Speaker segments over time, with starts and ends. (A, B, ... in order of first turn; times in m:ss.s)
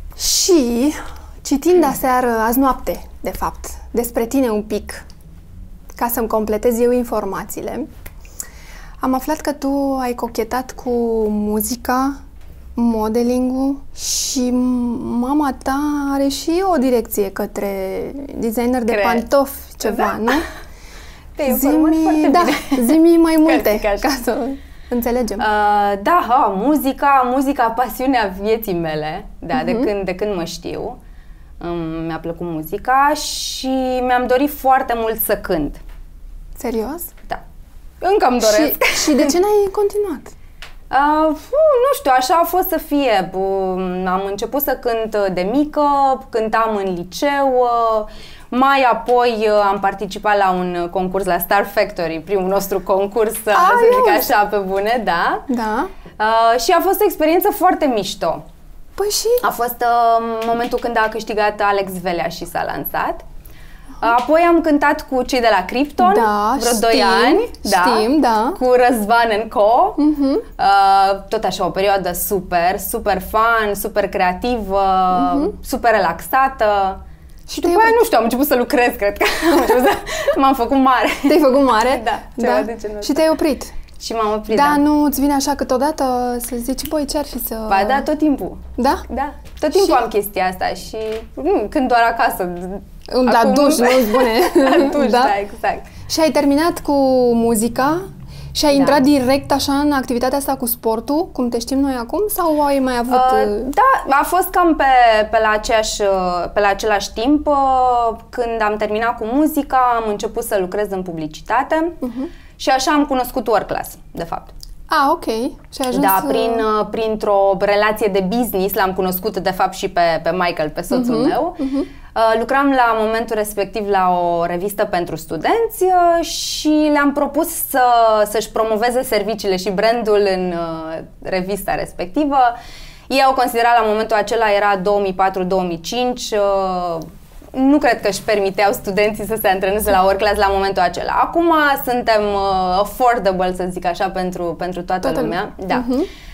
0:00.2-0:05.0 A
0:06.0-0:07.9 A
0:09.0-0:12.2 A
0:12.8-0:20.5 A
0:18.9-0:19.2 B
0:19.8-0:20.4 B
0:21.4-0:24.1 B
0:21.4-0:25.5 A
0:25.4-0:31.0 B
0:29.5-0:29.9 A
0:31.6-0:35.8 B
0:36.6-0:37.1 A
0:38.0-0:39.4 B
0:38.4-0:40.3 A
0:40.9-0:55.5 B
0:53.5-0:54.4 A
0:55.5-0:55.9 A
0:56.2-0:58.4 B
0:59.0-0:59.4 A
0:59.4-1:03.2 B
1:04.0-1:10.0 B
1:06.0-1:08.6 A
1:10.0-1:10.4 A
1:10.6-1:17.0 B
1:15.1-1:15.6 A
1:17.5-1:18.0 A
1:17.6-1:23.3 B
1:21.2-1:23.7 A
1:24.0-1:24.8 B
1:24.5-1:28.1 A
1:27.7-1:35.9 B
1:28.8-1:29.0 A
1:29.7-1:30.0 A
1:33.1-1:35.3 A
1:36.1-1:43.7 A
1:38.7-1:39.0 B
1:43.1-1:52.0 B
1:52.0-1:52.3 A
1:52.6-1:54.5 B
1:54.9-1:56.7 A
1:55.9-2:01.6 B
2:00.9-2:01.9 A
2:02.1-2:12.5 B
2:13.1-2:25.9 B
2:25.0-2:26.1 A